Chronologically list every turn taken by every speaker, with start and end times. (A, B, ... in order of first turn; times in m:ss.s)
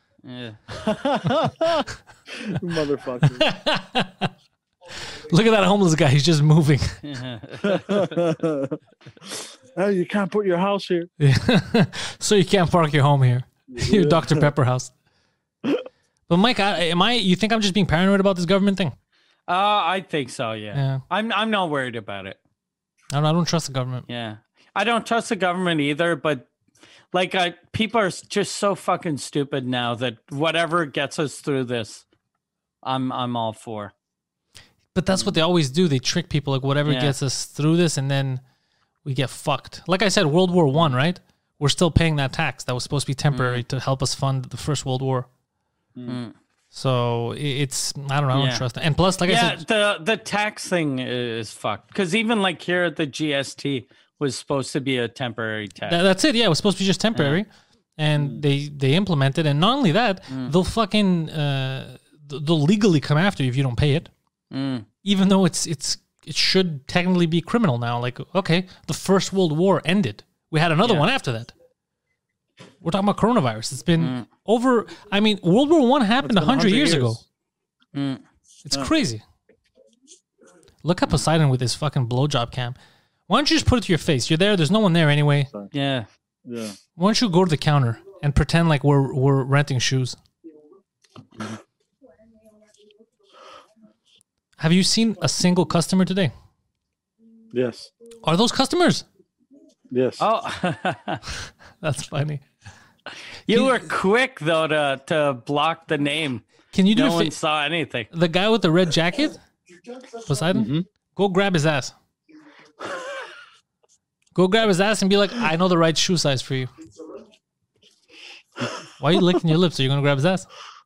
0:00.2-0:00.6 A
0:00.7-0:03.5 B
0:03.3-0:04.3 C
0:05.1-0:07.0 C
0:07.0-0:08.2 A
0:07.6-0:11.1 B
0:11.2-0:14.9 C
0:13.7-0:14.5 B
0:16.3-0:18.9 C
0:19.5-0:22.4 A
0:20.7-0:21.0 C
0:23.1-0:24.0 C
0:24.1-0:26.5 A
0:27.1-0:32.0 A
0:32.8-0:33.9 A
0:34.9-0:38.4 C
0:36.8-0:37.1 A
0:39.0-0:45.3 C
0:43.3-0:43.6 A
0:46.1-0:46.3 A
0:46.7-0:49.6 C
0:48.3-0:48.6 A
0:49.2-0:56.0 A
0:55.9-1:04.1 C
0:57.1-0:57.4 A
0:58.2-0:58.4 B
1:04.5-1:04.9 A
1:05.0-1:11.5 C
1:10.8-1:11.1 A
1:12.8-1:17.2 C
1:14.0-1:14.2 A
1:16.2-1:17.2 B
1:17.9-1:18.2 A
1:18.6-1:19.2 C
1:20.8-1:22.8 C
1:23.3-1:25.5 C
1:25.7-1:26.1 A
1:26.4-1:26.8 B
1:27.0-1:30.2 C
1:34.6-1:36.3 C
1:37.5-1:37.9 B
1:38.2-1:39.0 C
1:39.9-1:40.2 B
1:40.2-1:41.2 A
1:41.8-1:42.4 C
1:43.4-1:48.1 A
1:43.5-1:43.9 C
1:46.7-1:47.3 C
1:48.1-1:49.4 C
1:50.3-1:51.9 C
1:50.5-1:50.8 B
1:54.3-1:56.7 C
1:58.6-1:59.4 B
1:59.0-2:00.5 C